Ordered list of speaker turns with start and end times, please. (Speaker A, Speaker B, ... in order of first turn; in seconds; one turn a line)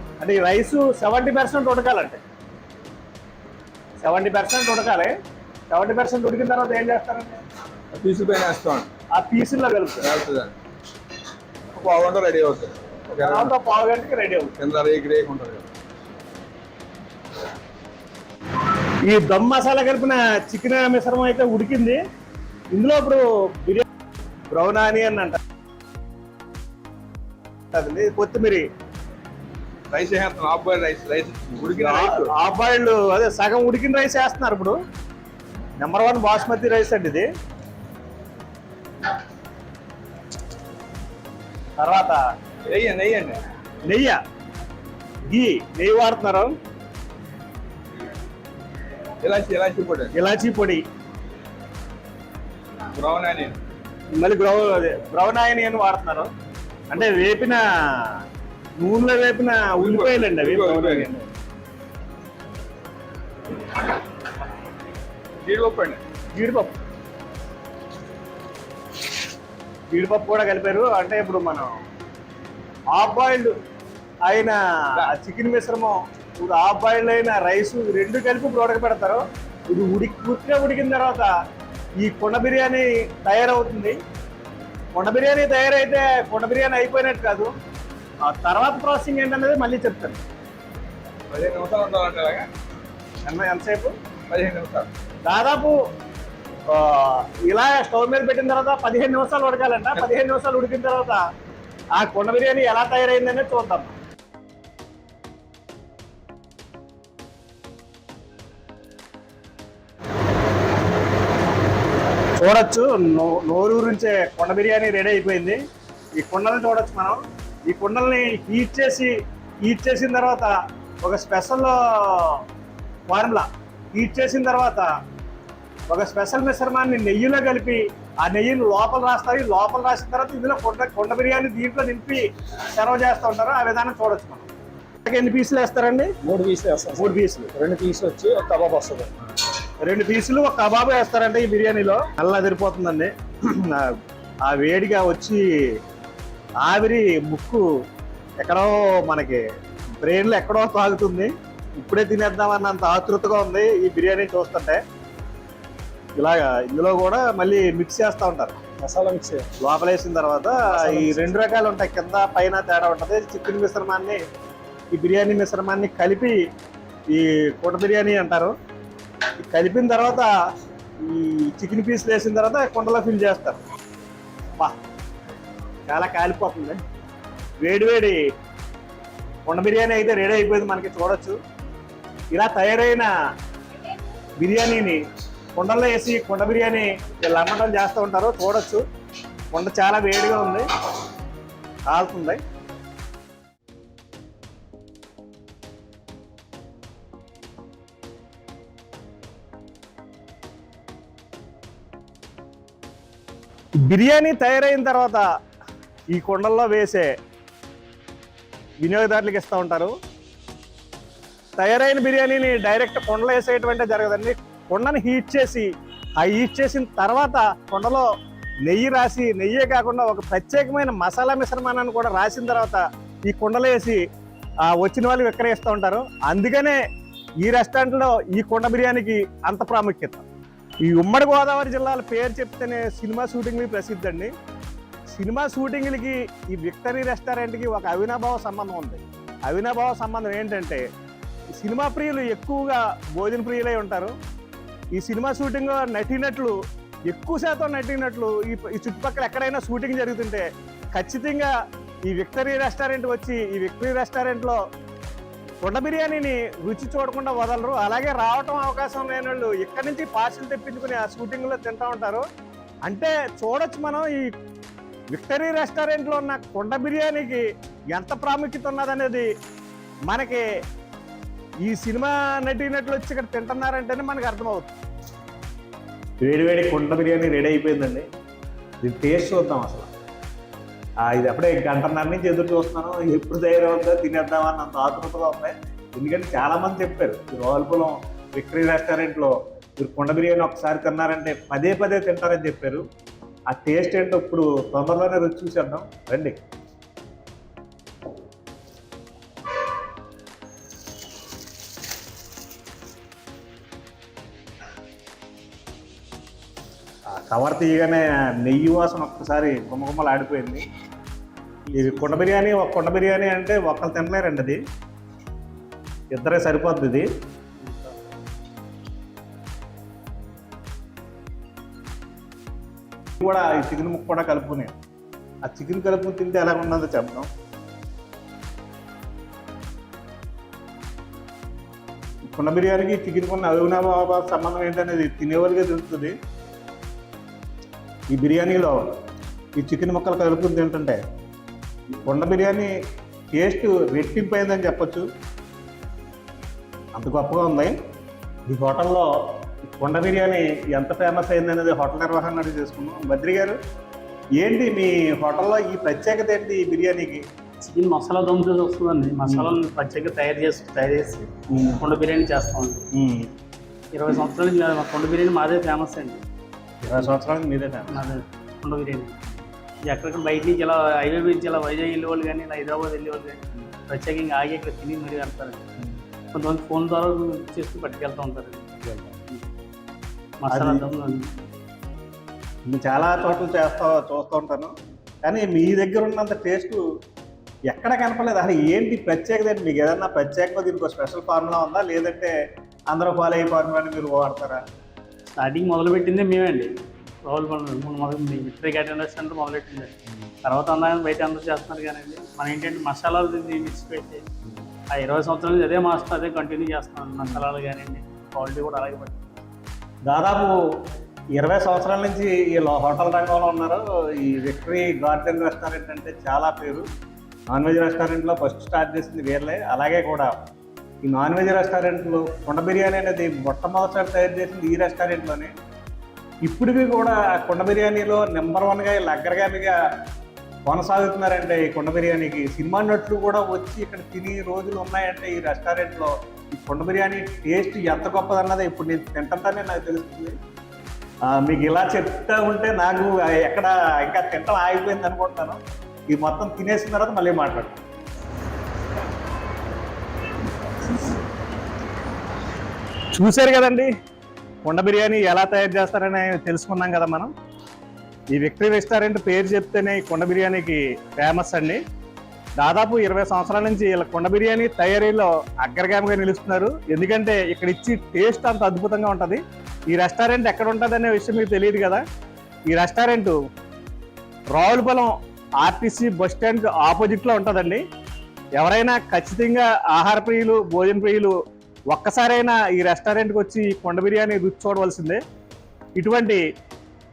Speaker A: 0.2-2.2
Speaker A: 4.0-5.1
Speaker A: 5.7-7.4
Speaker B: 7.9-8.9
Speaker A: 9.2-10.1
Speaker B: 10.0-10.5
Speaker B: 11.8-13.5
Speaker A: 13.2-14.5
Speaker B: 14.6-15.7
Speaker A: 19.0-22.0
Speaker A: 22.7-23.9
Speaker A: 24.5-25.4
Speaker A: 27.7-28.6
Speaker B: 29.9-32.3
Speaker A: 31.7-34.8
Speaker A: 35.8-37.3
Speaker A: 41.8-42.2
Speaker B: 42.7-43.4
Speaker A: 43.9-44.2
Speaker A: 45.3-46.5
Speaker B: 49.2-50.1
Speaker A: 50.1-50.8
Speaker B: 53.0-53.6
Speaker A: 54.1-56.3
Speaker A: 56.9-58.2
Speaker A: 58.8-61.3
Speaker B: 59.8-61.1
Speaker B: 65.4-66.0
Speaker A: 66.3-66.8
Speaker A: 69.9-71.7
Speaker A: 73.0-73.5
Speaker A: 74.3-81.3
Speaker A: 82.0-84.0
Speaker A: 84.9-87.5
Speaker A: 88.3-90.2
Speaker B: 91.3-92.5
Speaker A: 93.2-94.0
Speaker B: 94.3-94.9
Speaker A: 95.2-95.8
Speaker A: 96.7-101.2
Speaker A: 102.0-103.9
Speaker A: 112.4-115.6
Speaker A: 116.2-119.1
Speaker A: 119.6-120.5
Speaker A: 121.0-122.4
Speaker A: 123.1-124.9
Speaker A: 125.9-134.5
Speaker A: 135.1-136.1
Speaker C: 136.2-139.1
Speaker A: 136.9-137.5
Speaker A: 139.8-143.9
Speaker A: 144.5-145.4
Speaker A: 146.6-147.7
Speaker A: 148.4-149.4
Speaker A: 150.0-154.8
Speaker A: 156.2-158.6
Speaker C: 158.8-159.5
Speaker A: 159.6-164.2
Speaker C: 160.7-161.3
Speaker A: 164.9-166.4
Speaker A: 167.1-168.5
Speaker A: 169.4-170.3
Speaker A: 171.0-173.6
Speaker A: 175.9-176.8
Speaker A: 177.6-178.2
Speaker A: 179.5-181.4
Speaker A: 182.3-183.1
Speaker A: 184.4-185.0
Speaker A: 185.6-188.8
Speaker A: 189.5-190.7
Speaker A: 191.9-192.4
Speaker A: 203.8-205.2
Speaker A: 206.1-207.1
Speaker A: 208.8-209.9
Speaker A: 211.6-215.7
Speaker A: 216.2-218.1
Speaker A: 218.7-224.0
Speaker A: 224.7-226.8
Speaker A: 227.4-230.3
Speaker A: 230.8-234.3
Speaker A: 235.1-240.8
Speaker A: 241.6-244.1
Speaker A: 244.9-246.6
Speaker A: 247.1-251.5
Speaker A: 252.1-254.6
Speaker A: 255.6-262.2
Speaker A: 262.9-264.3
Speaker A: 265.1-269.3
Speaker A: 270.1-270.5
Speaker A: 271.6-274.8
Speaker A: 276.2-278.1
Speaker A: 278.8-279.9
Speaker A: 281.1-292.8
Speaker A: 293.5-296.4
Speaker A: 307.1-310.6
Speaker A: 311.7-314.6
Speaker A: 316.1-317.1
Speaker D: 317.6-318.0
Speaker A: 323.2-324.7
Speaker A: 325.4-327.3
Speaker A: 332.2-336.1
Speaker A: 338.1-338.9
Speaker A: 339.6-341.0
Speaker A: 342.1-342.7
Speaker A: 343.3-345.1
Speaker A: 346.9-347.8
Speaker A: 348.5-349.1
Speaker A: 349.7-353.6
Speaker A: 354.4-357.2
Speaker D: 357.6-361.3
Speaker A: 359.3-359.5
Speaker A: 361.5-361.8
Speaker D: 361.8-362.9
Speaker A: 362.9-363.3
Speaker D: 363.9-366.2
Speaker A: 366.8-367.9
Speaker D: 367.9-369.2
Speaker D: 369.9-375.7
Speaker D: 376.3-379.4
Speaker D: 380.4-381.4
Speaker A: 380.5-380.9
Speaker A: 382.7-384.7
Speaker A: 385.2-386.8
Speaker A: 387.7-392.3
Speaker A: 392.9-394.6
Speaker D: 395.3-396.7
Speaker D: 397.2-404.3
Speaker D: 404.9-409.5
Speaker A: 410.1-410.5
Speaker A: 411.4-416.9
Speaker A: 417.5-420.3
Speaker A: 421.0-425.5
Speaker A: 426.5-429.8
Speaker A: 430.7-440.4
Speaker A: 441.3-447.8
Speaker A: 453.1-453.9
Speaker A: 454.6-457.3
Speaker A: 458.3-461.8
Speaker A: 462.6-472.0
Speaker A: 472.7-473.4
Speaker A: 474.6-477.8
Speaker A: 478.6-481.3
Speaker A: 481.9-485.2
Speaker A: 486.0-486.4